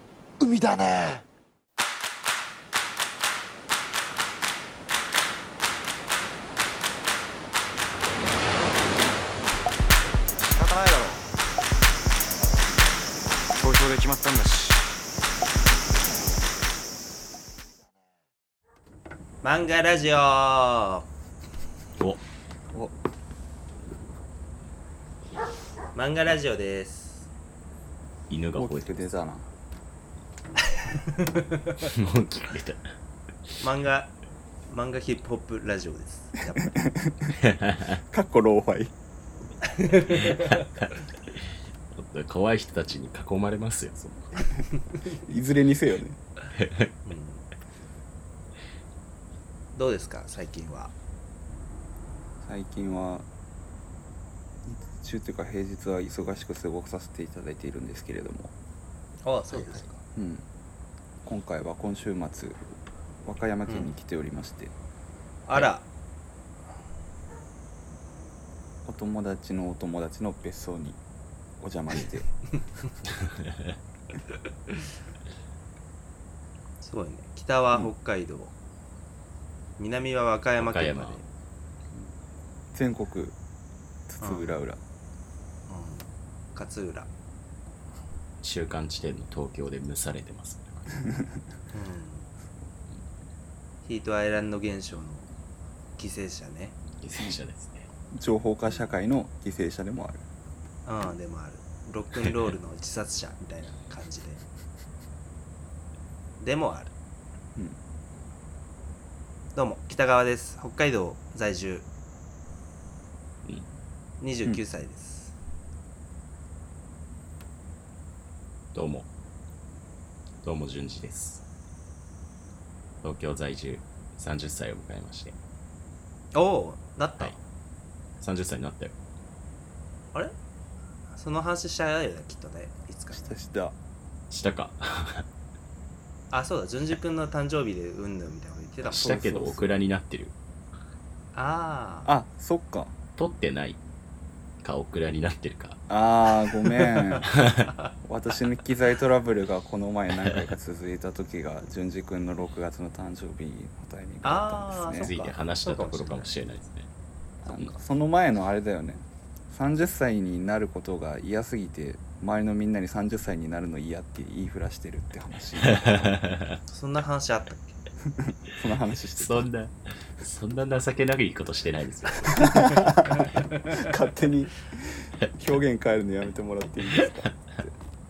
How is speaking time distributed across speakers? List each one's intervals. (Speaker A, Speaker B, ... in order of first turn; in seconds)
Speaker A: 0.4-1.2, 10.5-11.3, 13.6-14.9
Speaker B: 19.4-21.1, 25.9-27.3, 30.7-31.9, 33.6-34.1, 34.7-36.9, 39.7-40.7, 47.0-47.4, 49.7-50.9, 59.2-60.0, 63.7-63.9, 65.5-65.8, 76.8-78.5, 79.8-81.2, 84.2-84.6, 85.7-87.1, 91.7-92.3, 93.8-95.3, 96.0-96.8, 100.8-104.4, 106.4-106.9, 109.5-111.9, 114.2-115.4, 126.3-127.4, 131.1-133.3, 136.3-139.2, 141.3-142.1, 154.2-156.3, 166.7-167.8, 173.2-173.8
Speaker C: 28.3-29.1, 31.8-32.8, 37.4-38.0, 41.9-44.5, 46.5-46.9, 73.2-73.7, 80.6-81.2, 88.4-90.9, 97.0-97.9, 118.7-119.1, 120.4-121.4, 123.0-125.3, 128.2-128.9, 134.3-135.3, 138.9-140.3, 143.2-143.8, 144.6-145.8, 147.3-147.7, 154.9-156.9, 165.6-166.6, 169.2-173.0
Speaker D: 28.5-29.5, 36.7-37.3, 38.1-38.9, 45.2-46.2, 52.4-53.3, 54.6-58.5, 60.1-60.4, 61.2-62.6, 63.2-64.7, 68.8-71.0, 71.6-72.3, 82.7-83.3, 84.1-84.8, 98.1-100.2, 133.1-133.7, 138.9-139.7, 142.1-142.9, 145.9-147.3, 148.0-155.1, 157.4-166.1, 168.2-169.5, 172.3-177.7